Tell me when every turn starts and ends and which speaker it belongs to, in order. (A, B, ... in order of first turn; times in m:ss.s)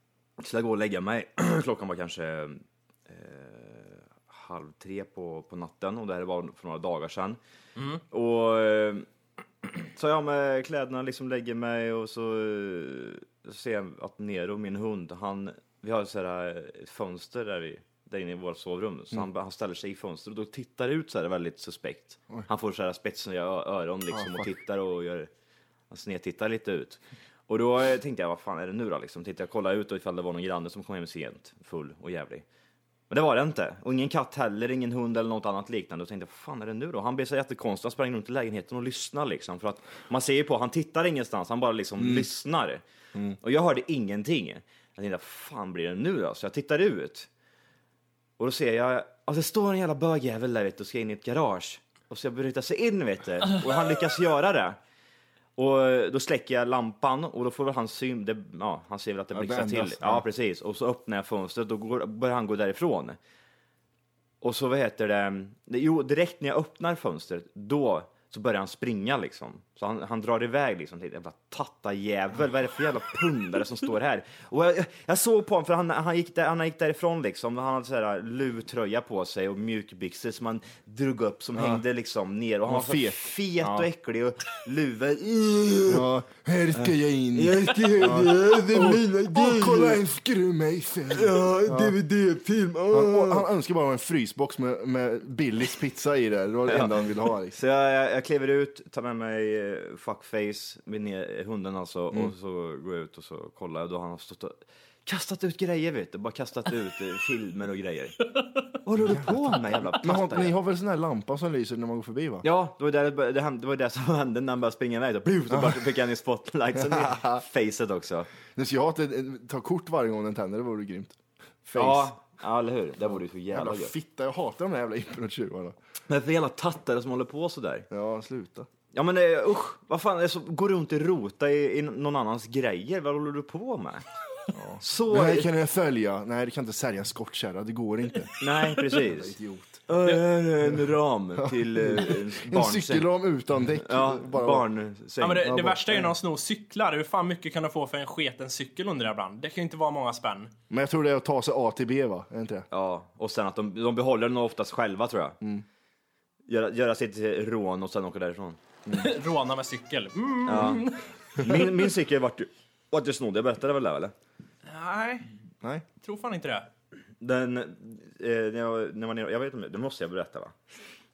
0:00.4-0:07.4 A
0:08.1-0:09.1 A
0:09.8-0:25.3 A
0:24.1-0:24.5 B
0:25.9-0:32.4 A
0:33.1-0:42.8 A
0:42.0-0:42.2 B
0:43.4-0:47.3 A
0:48.4-0:54.8 A
0:55.6-1:03.2 A
0:59.3-1:00.2 B
1:04.4-1:26.1 A
1:21.6-1:21.8 B
1:22.7-1:23.9 B
1:25.9-1:32.0 B
1:26.8-1:30.0 A
1:31.1-1:33.5 A
1:32.9-1:37.6 B
1:36.7-1:48.3 A
1:48.8-1:50.6 A
1:49.1-1:52.4 B
1:52.4-1:58.3 A
1:55.5-1:55.8 B
1:56.8-1:57.4 B
1:58.6-2:02.1 B
2:01.8-2:03.9 A
2:03.5-2:05.8 B
2:06.1-2:07.9 A
2:07.9-2:08.7 B
2:08.9-2:14.0 A
2:14.5-2:19.9 B
2:14.8-2:15.5 A
2:18.4-2:19.4 A
2:19.9-2:23.1 A
2:21.4-2:24.7 B
2:23.8-2:25.6 A
2:25.2-2:30.5 C
2:25.4-2:26.1 B
2:30.7-2:32.7 B
2:32.7-2:35.4 A
2:36.5-2:38.6 A
2:38.9-2:41.6 C
2:40.5-2:44.1 A
2:44.7-2:45.3 C
2:46.0-2:46.7 C
2:47.2-2:50.6 A